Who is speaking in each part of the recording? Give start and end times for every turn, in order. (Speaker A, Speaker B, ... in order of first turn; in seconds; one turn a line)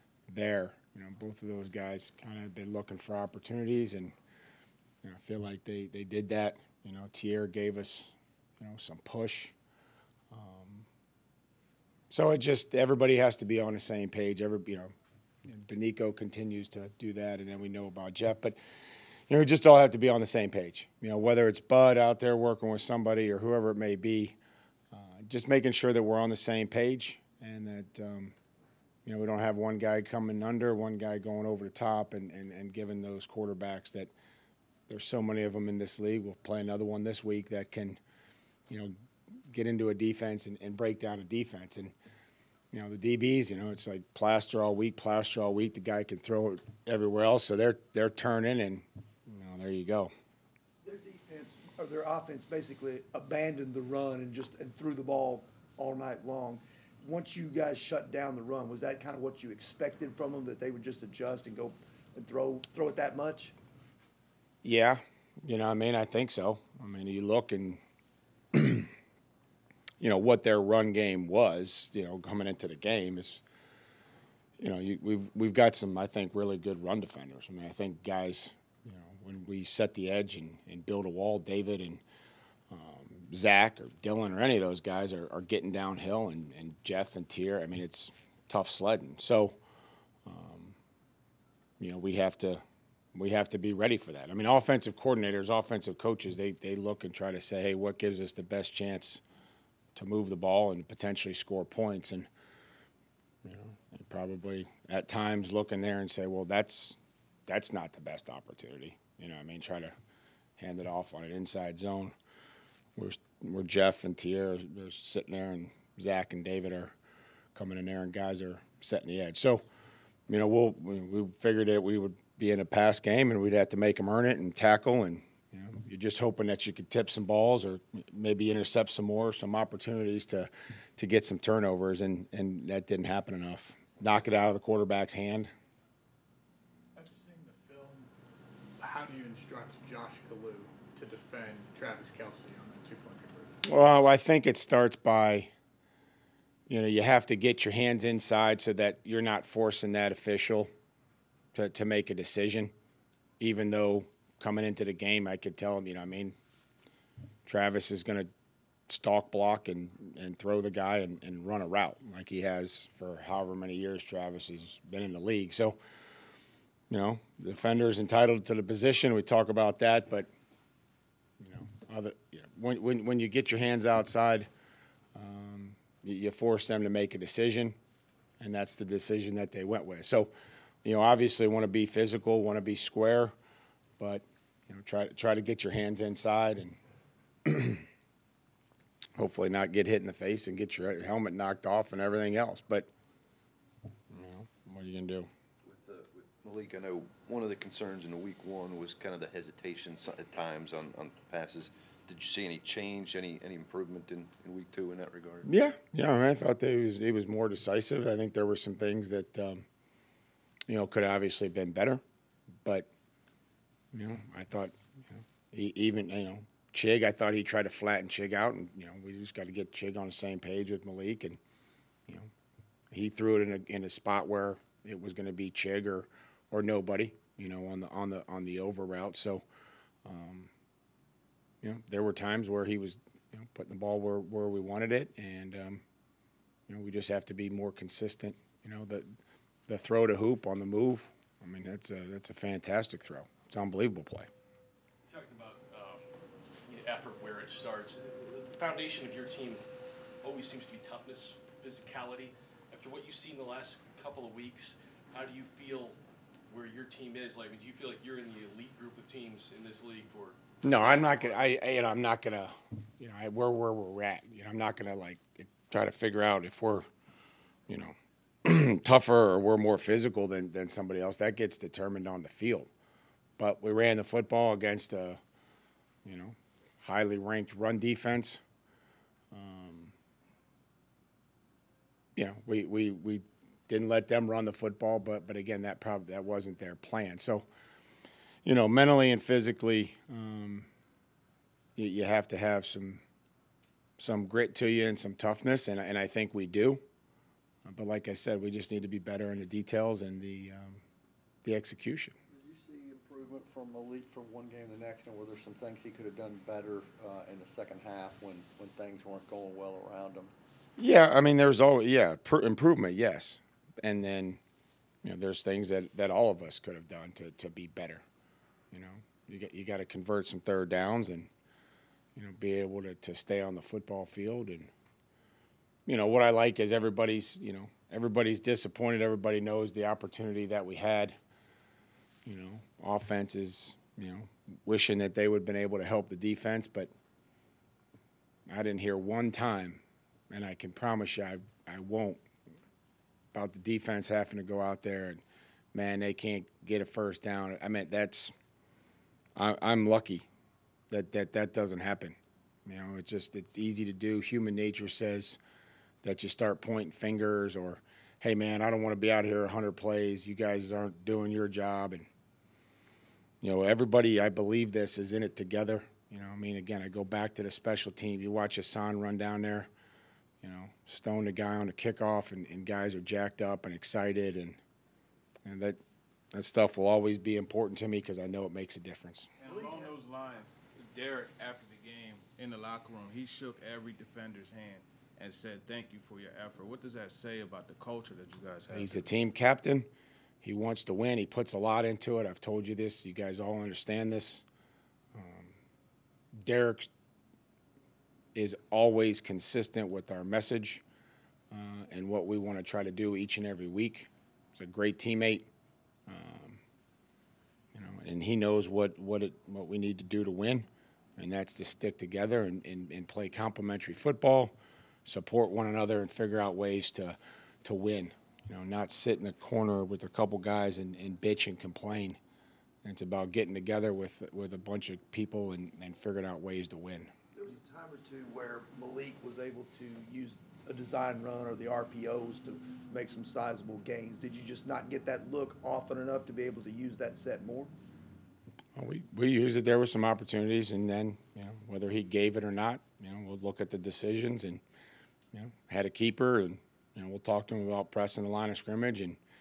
Speaker A: 0.3-4.1
Speaker A: 5.0-9.5
Speaker A: 10.3-10.9
Speaker A: 12.1-14.9
Speaker A: 15.4-18.6
Speaker A: 19.3-24.4
Speaker A: 24.9-28.3
Speaker A: 29.0-34.1
Speaker A: 34.9-38.0
Speaker A: 39.5-41.9
Speaker A: 42.7-50.1
Speaker B: 50.8-63.5
Speaker A: 64.6-67.8
Speaker A: 68.5-68.9
Speaker A: 70.0-73.4
Speaker A: 74.6-82.0
Speaker A: 82.7-89.6
Speaker A: 90.2-90.8
Speaker A: 91.8-92.6
Speaker A: 93.1-99.2
Speaker A: 99.9-102.3
Speaker A: 103.4-109.9
Speaker A: 110.6-112.1
Speaker A: 113.0-116.9
Speaker A: 117.5-119.6
Speaker A: 120.3-135.5
Speaker C: 136.9-138.1
Speaker C: 138.8-143.6
Speaker A: 143.6-145.5
Speaker A: 146.7-150.7
Speaker A: 151.5-152.7
Speaker A: 153.4-156.3
Speaker A: 157.4-158.3
Speaker A: 158.9-165.8
Speaker A: 166.9-170.3
Speaker A: 171.4-174.5
Speaker A: 175.1-177.8
Speaker A: 178.4-180.3
Speaker A: 180.8-183.3
Speaker A: 184.0-186.8
Speaker A: 187.4-187.8
Speaker A: 189.2-192.9
Speaker A: 194.1-195.3
Speaker D: 195.6-205.5
Speaker A: 205.4-209.6
Speaker A: 210.7-212.0
Speaker A: 213.9-221.4
Speaker A: 222.9-229.4
Speaker A: 230.0-230.5
Speaker A: 231.6-235.8
Speaker A: 236.7-239.1
Speaker A: 239.7-244.3
Speaker E: 245.1-246.0
Speaker E: 246.6-249.6
Speaker E: 250.2-261.5
Speaker A: 260.6-266.9
Speaker A: 267.7-272.7
Speaker A: 273.4-275.2
Speaker A: 276.0-278.4
Speaker A: 279.3-279.9
Speaker A: 282.1-287.4
Speaker A: 288.4-290.7
Speaker A: 291.8-293.0
Speaker A: 294.0-296.8
Speaker A: 297.6-300.8
Speaker A: 301.4-302.1
Speaker F: 302.3-310.3
Speaker A: 310.8-314.4
Speaker A: 315.0-318.0
Speaker A: 318.7-321.3
Speaker A: 322.1-324.7
Speaker A: 325.9-331.2
Speaker A: 332.2-336.9
Speaker A: 338.5-342.2
Speaker A: 343.3-345.2
Speaker A: 345.7-348.3
Speaker A: 349.4-350.2
Speaker A: 350.9-355.4
Speaker A: 356.0-362.1
Speaker A: 363.4-369.7
Speaker A: 370.4-374.6
Speaker A: 375.4-375.8
Speaker A: 376.3-379.3
Speaker G: 379.4-389.0
Speaker B: 379.5-379.9
Speaker A: 388.7-389.9
Speaker A: 390.4-394.4
Speaker A: 395.1-395.6
Speaker A: 396.3-396.9
Speaker A: 398.3-400.8
Speaker A: 401.5-405.5
Speaker A: 406.1-406.6
Speaker A: 407.7-422.2
Speaker A: 422.8-427.1
Speaker B: 427.3-437.7
Speaker A: 438.7-444.6
Speaker A: 445.3-449.2